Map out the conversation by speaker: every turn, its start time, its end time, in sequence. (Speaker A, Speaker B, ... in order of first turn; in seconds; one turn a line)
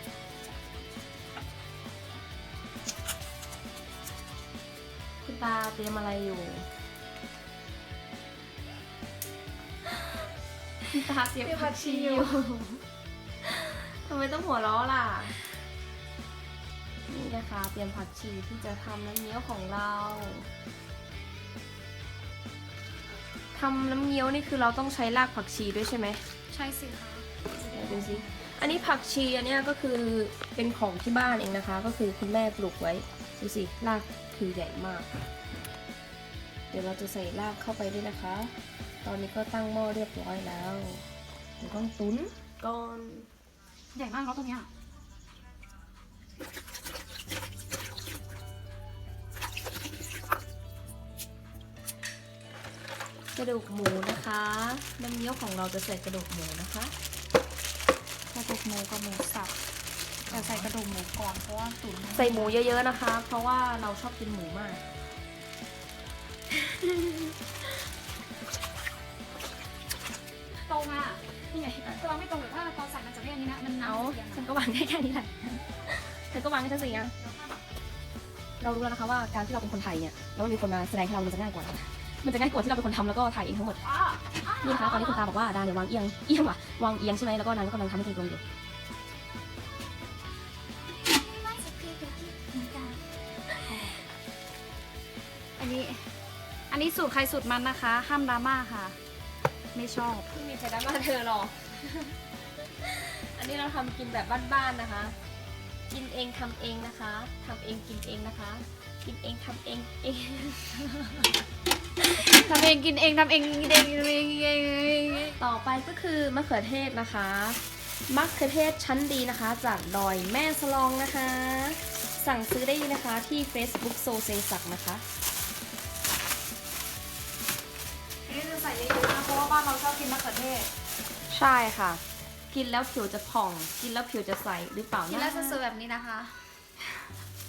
Speaker A: 5.2-6.7
Speaker A: 10.9-12.8
Speaker B: 11.4-12.4
Speaker A: 13.4-15.4
Speaker A: 17.1-20.5
Speaker A: 23.5-26.2
Speaker B: 26.5-28.4
Speaker A: 27.7-35.1
Speaker A: 36.7-41.0
Speaker A: 41.6-43.3
Speaker B: 43.9-44.7
Speaker A: 53.4-56.9
Speaker B: 58.3-59.5
Speaker A: 60.3-60.7
Speaker B: 60.3-62.6
Speaker A: 62.1-64.8
Speaker A: 66.5-67.3
Speaker B: 70.7-71.2
Speaker A: 71.5-72.0
Speaker B: 71.9-74.5
Speaker A: 73.8-77.1
Speaker B: 76.8-77.6
Speaker A: 78.6-83.8
Speaker B: 83.8-85.2
Speaker A: 84.6-88.4
Speaker B: 91.2-93.0
Speaker B: 93.7-94.0
Speaker B: 95.6-96.2
Speaker B: 96.7-99.0
Speaker B: 99.7-100.3
Speaker A: 100.3-105.2
Speaker A: 105.9-111.3
Speaker B: 112.0-115.4
Speaker A: 115.4-125.0
Speaker B: 128.3-130.7
Speaker A: 131.3-135.6
Speaker B: 135.1-136.7